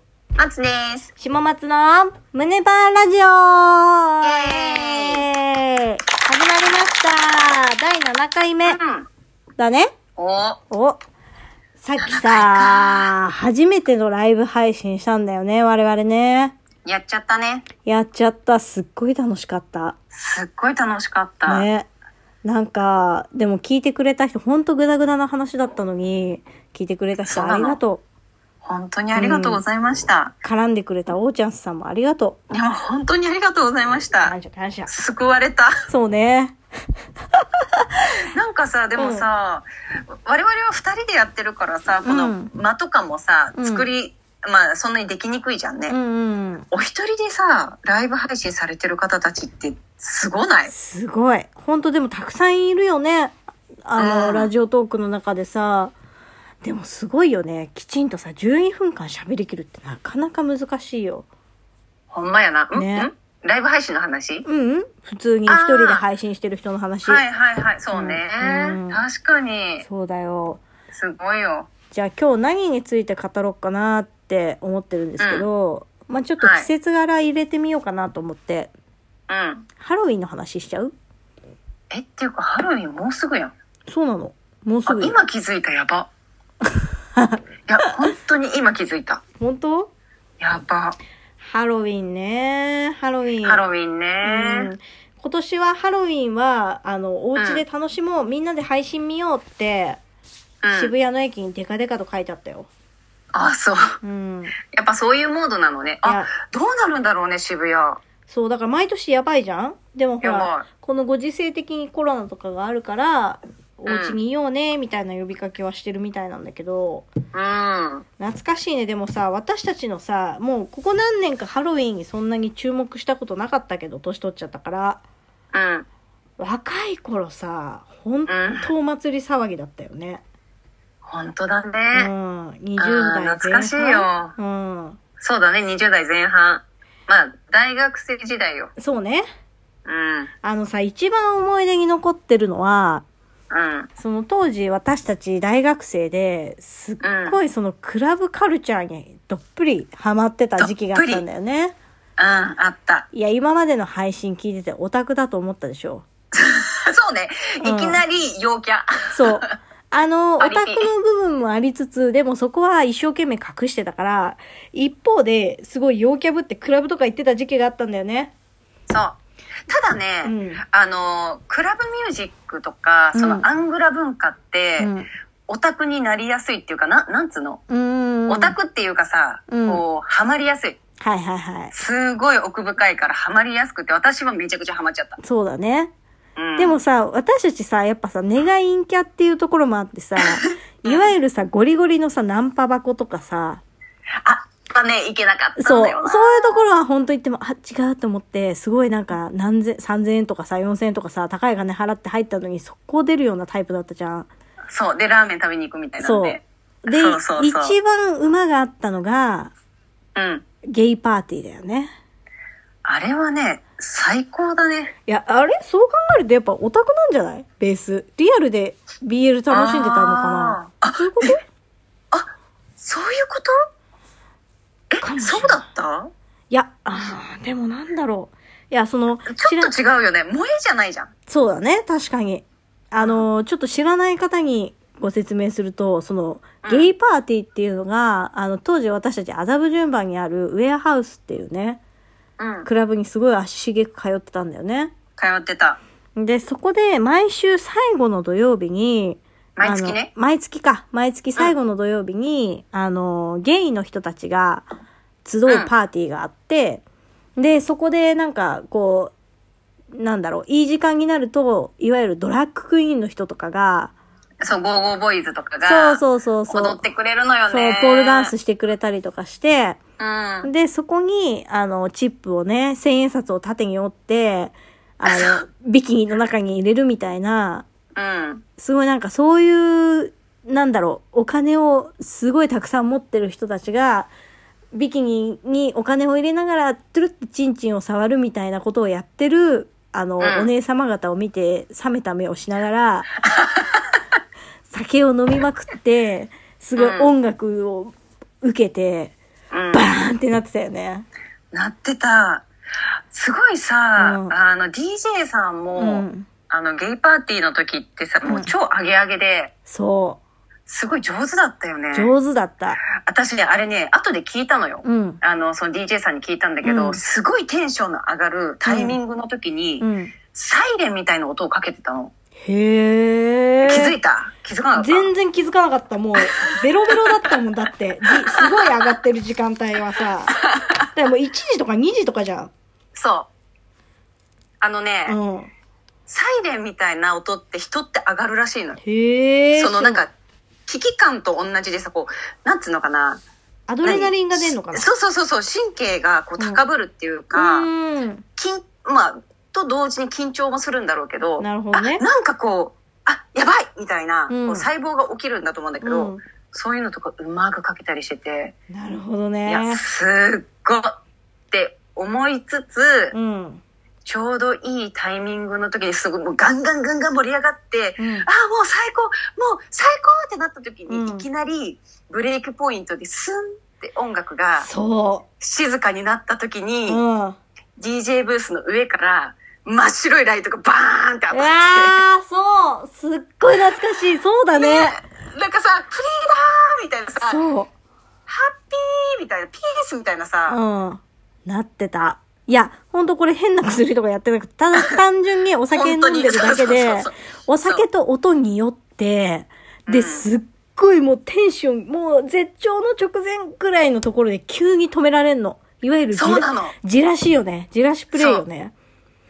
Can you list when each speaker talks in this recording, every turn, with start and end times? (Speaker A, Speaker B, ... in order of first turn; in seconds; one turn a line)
Speaker A: 0.3-1.1
Speaker B: 1.2-8.8
Speaker A: 4.2-5.2
Speaker A: 8.7-9.1
Speaker B: 9.6-9.9
Speaker A: 10.2-10.6
Speaker B: 10.7-11.0
Speaker B: 11.8-16.6
Speaker A: 12.0-13.1
Speaker A: 16.8-17.6
Speaker B: 17.8-19.9
Speaker A: 20.1-21.7
Speaker B: 21.4-21.9
Speaker B: 22.4-28.0
Speaker A: 27.2-27.8
Speaker A: 28.6-30.3
Speaker B: 29.1-29.6
Speaker B: 30.4-32.4
Speaker A: 32.5-34.3
Speaker B: 34.2-34.9
Speaker A: 34.9-35.7
Speaker B: 35.9-36.6
Speaker B: 37.6-37.9
Speaker A: 38.3-39.7
Speaker B: 39.0-39.2
Speaker A: 40.2-46.0
Speaker B: 42.0-42.5
Speaker B: 43.5-43.9
Speaker B: 45.9-46.7
Speaker A: 46.7-50.7
Speaker B: 50.7-55.9
Speaker A: 54.0-54.5
Speaker B: 56.6-61.3
Speaker A: 62.1-64.4
Speaker B: 62.7-63.1
Speaker B: 64.5-67.2
Speaker A: 65.5-66.0
Speaker A: 67.0-69.8
Speaker B: 67.9-69.0
Speaker B: 69.8-70.6
Speaker A: 70.9-71.7
Speaker B: 71.9-78.7
Speaker A: 75.2-75.5
Speaker A: 76.4-76.7
Speaker A: 79.3-79.7
Speaker B: 79.8-80.9
Speaker A: 81.9-83.5
Speaker B: 83.9-85.1
Speaker A: 84.8-86.1
Speaker B: 87.2-87.9
Speaker A: 87.7-89.2
Speaker B: 89.4-89.9
Speaker A: 90.4-91.0
Speaker B: 91.4-93.6
Speaker A: 93.4-94.7
Speaker B: 94.2-100.0
Speaker A: 97.3-97.6
Speaker A: 100.6-100.9
Speaker B: 100.7-102.7
Speaker A: 103.3-104.0
Speaker B: 104.0-104.5
Speaker A: 104.7-108.0
Speaker B: 106.0-106.3
Speaker B: 108.3-117.1
Speaker A: 110.2-110.7
Speaker A: 113.9-114.2
Speaker A: 117.3-118.0
Speaker B: 118.2-125.0
Speaker A: 125.5-125.8
Speaker B: 126.4-130.2
Speaker A: 128.3-128.7
Speaker A: 131.0-132.1
Speaker B: 131.9-135.0
Speaker A: 132.8-134.3
Speaker A: 135.2-138.7
Speaker B: 138.8-139.2
Speaker A: 139.8-140.3
Speaker B: 140.4-143.0
Speaker A: 143.5-143.9
Speaker B: 144.0-151.7
Speaker A: 147.0-147.4
Speaker A: 150.6-151.2
Speaker A: 152.2-153.1
Speaker B: 153.1-156.0
Speaker A: 156.3-159.5
Speaker B: 157.6-158.0
Speaker B: 159.1-168.3
Speaker A: 160.4-160.9
Speaker A: 168.9-169.2
Speaker A: 169.7-174.9
Speaker B: 170.2-170.6
Speaker B: 173.1-173.5
Speaker B: 174.8-175.1
Speaker A: 175.5-177.6
Speaker B: 177.7-178.5
Speaker A: 178.3-180.8
Speaker B: 179.5-179.8
Speaker B: 181.0-181.7
Speaker A: 181.7-185.2
Speaker B: 185.2-185.9
Speaker A: 186.3-186.8
Speaker B: 186.6-193.6
Speaker A: 190.8-191.1
Speaker A: 194.2-196.5
Speaker B: 195.6-204.3
Speaker A: 204.7-207.8
Speaker B: 206.0-209.5
Speaker A: 210.1-210.4
Speaker B: 210.7-211.9
Speaker A: 212.8-214.9
Speaker B: 215.1-221.4
Speaker A: 219.5-221.3
Speaker A: 222.1-223.5
Speaker A: 224.9-226.1
Speaker B: 225.0-225.6
Speaker B: 226.5-229.7
Speaker A: 229.3-231.1
Speaker B: 231.3-241.8
Speaker A: 233.0-233.2
Speaker A: 236.6-236.9
Speaker A: 242.4-242.7
Speaker B: 242.6-244.9
Speaker A: 245.2-245.8
Speaker B: 246.2-254.7
Speaker A: 249.6-250.1
Speaker B: 255.2-256.8
Speaker B: 257.4-259.1
Speaker B: 259.9-263.9
Speaker A: 264.4-268.3
Speaker B: 265.6-266.8
Speaker B: 267.5-269.8
Speaker A: 270.0-270.5
Speaker B: 270.4-277.6
Speaker A: 275.1-275.4
Speaker A: 277.9-278.4
Speaker B: 278.6-284.1
Speaker B: 284.7-293.1
Speaker A: 290.2-290.5
Speaker A: 293.2-293.8
Speaker B: 294.7-299.1
Speaker A: 296.8-297.1
Speaker A: 299.5-299.8
Speaker B: 299.7-301.1
Speaker A: 301.5-302.4
Speaker A: 303.1-309.5
Speaker B: 304.0-304.3
Speaker B: 305.8-306.3
Speaker B: 308.2-308.5
Speaker B: 309.7-310.2
Speaker A: 310.6-312.1
Speaker B: 311.9-312.8
Speaker A: 313.1-322.1
Speaker B: 314.8-315.2
Speaker B: 316.6-317.0
Speaker B: 318.6-319.0
Speaker B: 319.8-320.1
Speaker B: 322.4-323.9
Speaker A: 323.6-325.1
Speaker B: 324.8-330.4
Speaker A: 330.4-330.7
Speaker B: 330.9-332.5
Speaker A: 332.9-333.3
Speaker A: 334.6-335.2
Speaker B: 335.1-335.5
Speaker A: 336.1-338.8
Speaker B: 338.8-340.0
Speaker A: 339.5-340.1
Speaker A: 340.7-343.2
Speaker B: 343.7-344.9
Speaker A: 343.8-347.7
Speaker B: 347.3-348.2
Speaker A: 348.4-358.5
Speaker B: 351.4-352.0
Speaker B: 354.3-354.7
Speaker B: 355.8-356.2
Speaker B: 358.7-359.8
Speaker A: 359.4-361.0
Speaker A: 361.5-363.1
Speaker B: 363.1-363.6
Speaker A: 364.0-374.7
Speaker B: 368.0-368.3
Speaker B: 370.9-371.2
Speaker B: 374.6-375.2
Speaker A: 375.4-377.0
Speaker B: 376.9-377.4
Speaker A: 377.8-382.0
Speaker B: 381.3-385.0
Speaker A: 384.6-387.4
Speaker B: 387.2-387.7
Speaker A: 388.3-390.6
Speaker B: 390.5-408.7
Speaker A: 395.7-397.1
Speaker A: 399.9-400.3
Speaker A: 406.1-406.7
Speaker A: 408.1-408.4